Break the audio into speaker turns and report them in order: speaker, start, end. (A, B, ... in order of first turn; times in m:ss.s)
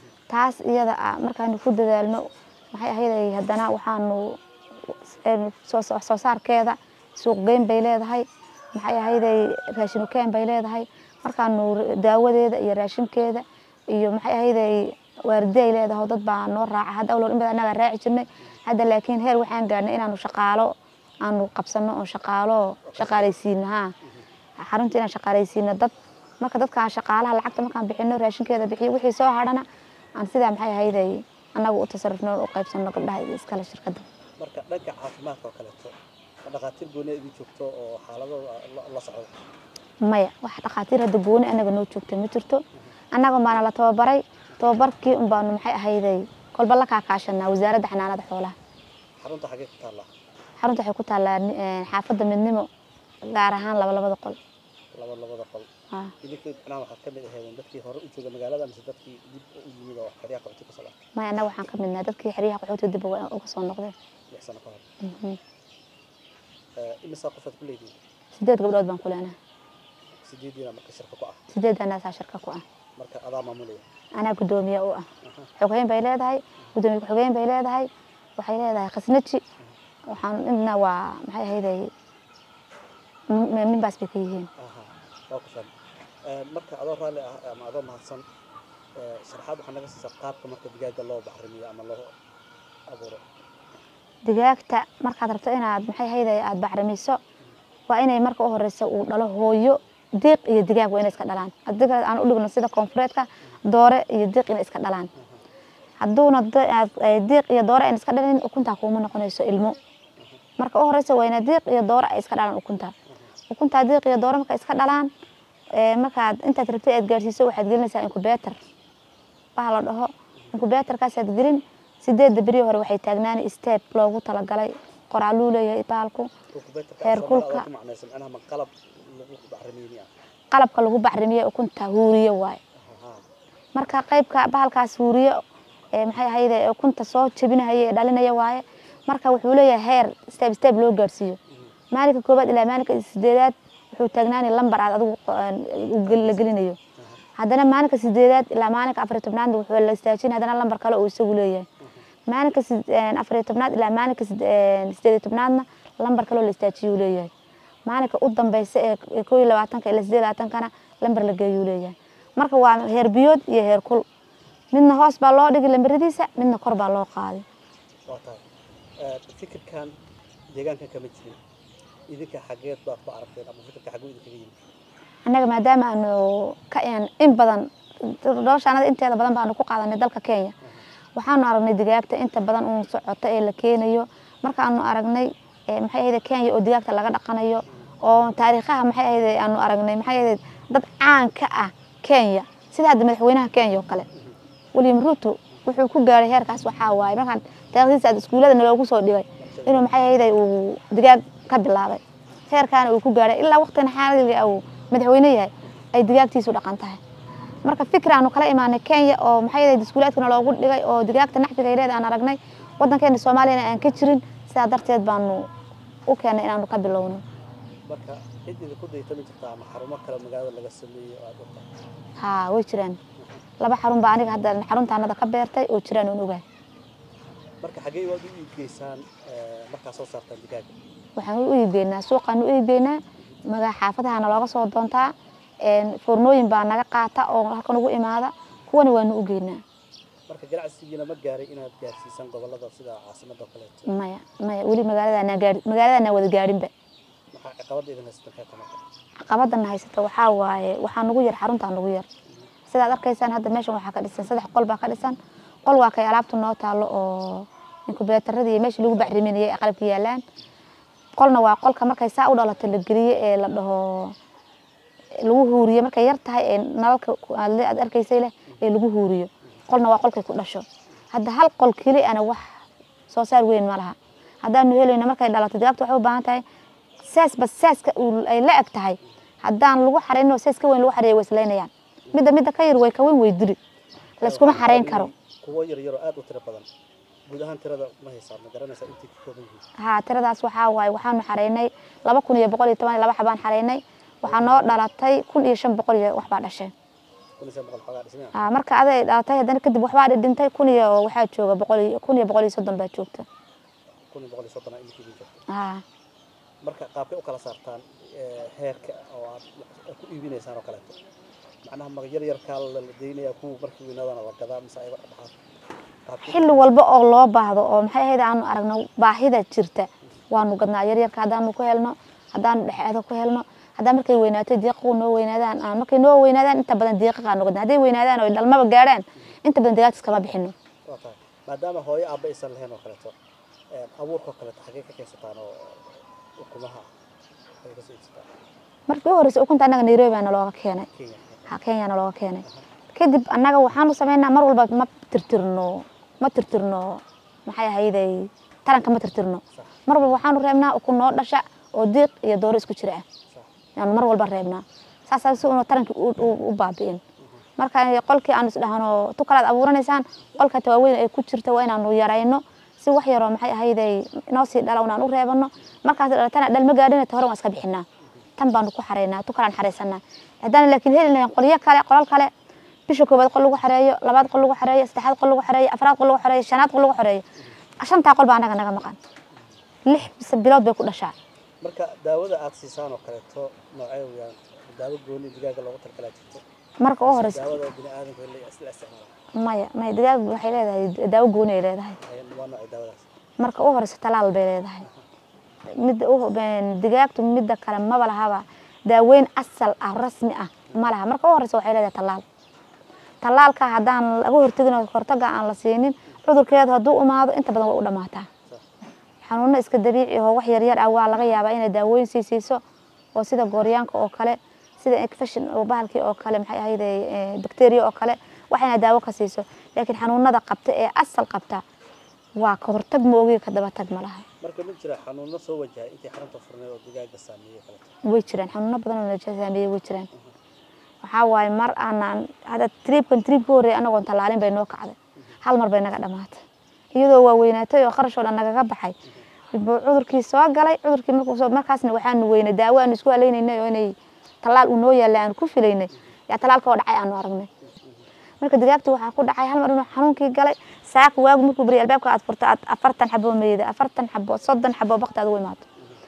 0:00.3-0:20.7 A
0:21.2-0:23.9 A
0:22.8-0:23.3 B
0:24.6-0:29.6 A
0:30.2-0:34.0 A
0:34.4-0:39.3 B
0:40.0-0:42.6 A
0:43.1-0:48.5 A
0:49.2-0:50.1 B
0:50.6-0:52.7 A
0:53.2-0:54.4 A
0:54.9-0:55.7 B
0:56.2-1:01.0 B
1:01.1-1:03.9 A
1:04.3-1:04.8 B
1:05.0-1:05.4 A
1:06.8-1:08.0 B
1:08.3-1:09.4 A
1:10.2-1:11.4 B
1:11.5-1:12.6 A
1:13.0-1:13.8 B
1:14.1-1:15.0 A
1:15.2-1:15.5 B
1:15.6-1:19.4 A
1:20.1-1:21.9 A
1:23.3-1:24.5 A
1:24.6-1:25.7 B
1:26.2-1:28.2 B
1:29.0-1:32.1 B
1:32.9-1:33.2 B
1:34.2-1:37.2 A
1:37.9-1:45.1 A
1:46.0-1:49.8 A
1:50.6-1:52.9 A
1:53.5-1:55.1 A
1:55.7-1:58.6 A
1:59.6-2:06.3 A
2:06.5-2:10.1 B
2:07.0-2:07.7 A
2:10.5-2:12.6 A
2:12.8-2:13.2 B
2:13.7-2:15.4 A
2:16.0-2:21.4 A
2:21.9-2:26.8 A
2:26.0-2:26.4 B
2:27.4-2:31.7 A
2:32.3-2:37.3 A
2:37.8-2:44.0 A
2:44.7-2:47.4 A
2:48.1-2:48.4 B
2:49.0-2:49.9 B
2:50.5-2:51.4 B
2:52.1-2:54.5 B
2:55.2-3:00.5 A
3:01.1-3:14.0 A
3:14.7-3:27.0 A
3:19.4-3:19.9 B
3:27.6-3:35.5 A
3:36.1-3:37.2 A
3:37.9-3:41.7 B
3:42.2-3:43.0 A
3:43.6-3:46.4 A
3:47.6-3:50.7 B
3:51.2-3:59.6 A
4:00.3-4:03.9 B
4:03.9-4:06.7 A
4:07.3-4:08.8 B
4:09.2-4:12.1 A
4:12.7-4:20.2 A
4:21.2-4:24.1 A
4:25.2-4:36.4 A
4:37.0-4:43.6 A
4:44.2-4:45.1 A
4:44.2-4:46.7 B
4:47.3-4:49.6 B
4:49.8-4:56.7 A
4:54.2-4:54.8 B
4:57.4-4:58.3 B
4:58.3-5:03.2 A
5:04.1-5:05.4 B
5:05.5-5:05.8 A
5:06.6-5:11.0 B
5:11.6-5:15.3 B
5:16.0-5:16.7 B
5:16.2-5:30.5 A
5:30.8-5:33.1 B
5:33.7-5:35.9 B
5:36.4-5:36.9 B
5:37.6-5:38.3 B
5:38.9-5:40.9 A
5:40.9-5:41.5 B
5:41.5-5:53.0 A
5:49.5-5:49.8 B
5:53.8-5:57.0 A
5:57.6-6:07.8 A
6:08.4-6:12.3 A
6:12.9-6:17.2 A
6:17.8-6:19.0 A
6:19.9-6:21.1 A
6:21.6-6:26.4 B
6:26.8-6:27.6 A
6:27.0-6:29.1 B
6:29.4-6:32.0 A
6:32.0-6:33.0 B
6:33.4-6:34.8 A
6:35.7-6:42.2 A
6:43.2-6:48.3 A
6:49.2-6:52.6 A
6:53.1-7:01.6 A
7:02.4-7:04.2 A
7:04.4-7:07.9 B
7:08.0-7:10.1 A
7:11.0-7:16.4 A
7:16.9-7:18.9 A
7:19.5-7:27.5 A
7:28.4-7:35.6 A